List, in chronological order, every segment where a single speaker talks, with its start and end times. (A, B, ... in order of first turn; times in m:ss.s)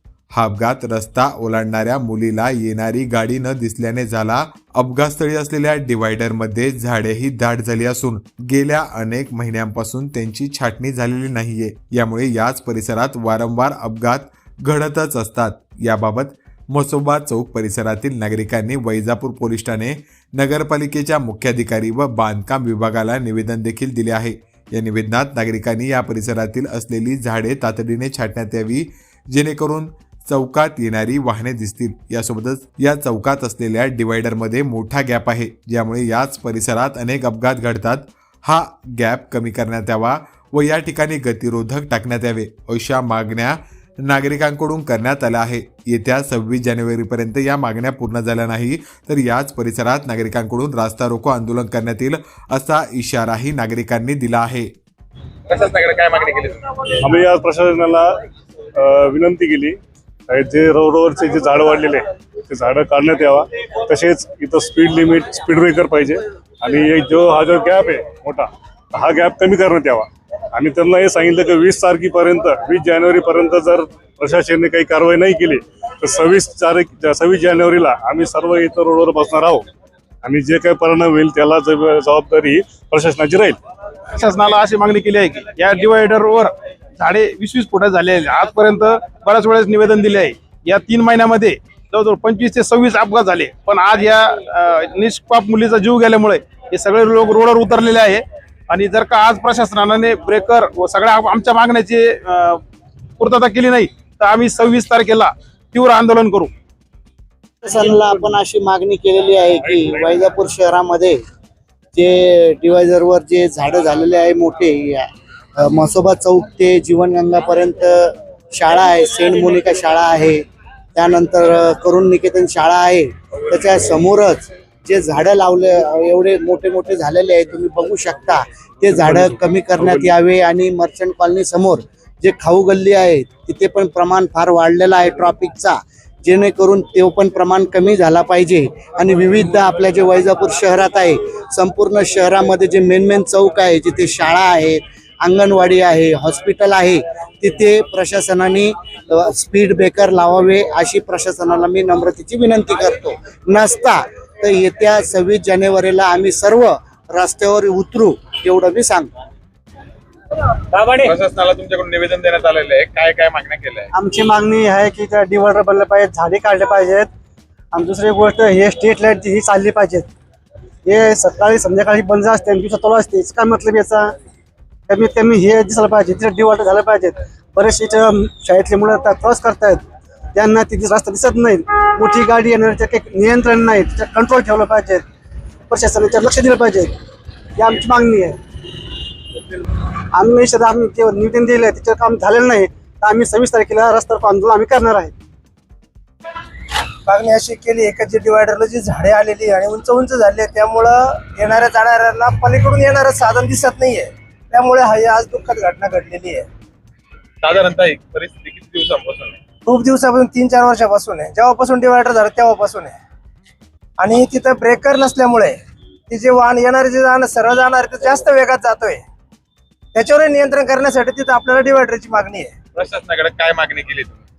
0:00.3-0:54.7 A
0:55.5-0:56.9 B
0:57.0-0:58.1 C
0:58.8-1:19.7 C
1:20.2-1:23.6 C
1:24.2-1:42.6 D
1:43.2-1:46.5 D
1:47.6-1:51.2 E
1:51.9-2:00.4 E
2:01.0-2:39.1 E
2:09.8-2:10.1 C
2:40.7-2:43.9 B
2:44.0-2:47.1 F
2:47.7-2:50.1 F
2:50.8-2:54.1 F
2:54.9-2:59.8 F
3:00.4-3:05.0 F
3:05.7-3:06.9 F
3:07.6-3:08.4 F
3:10.1-3:15.1 F
3:17.1-3:26.5 G
3:27.4-3:29.4 B
3:29.6-3:33.0 G
3:34.0-3:39.0 G
3:39.9-3:42.6 G
3:42.8-3:44.2 B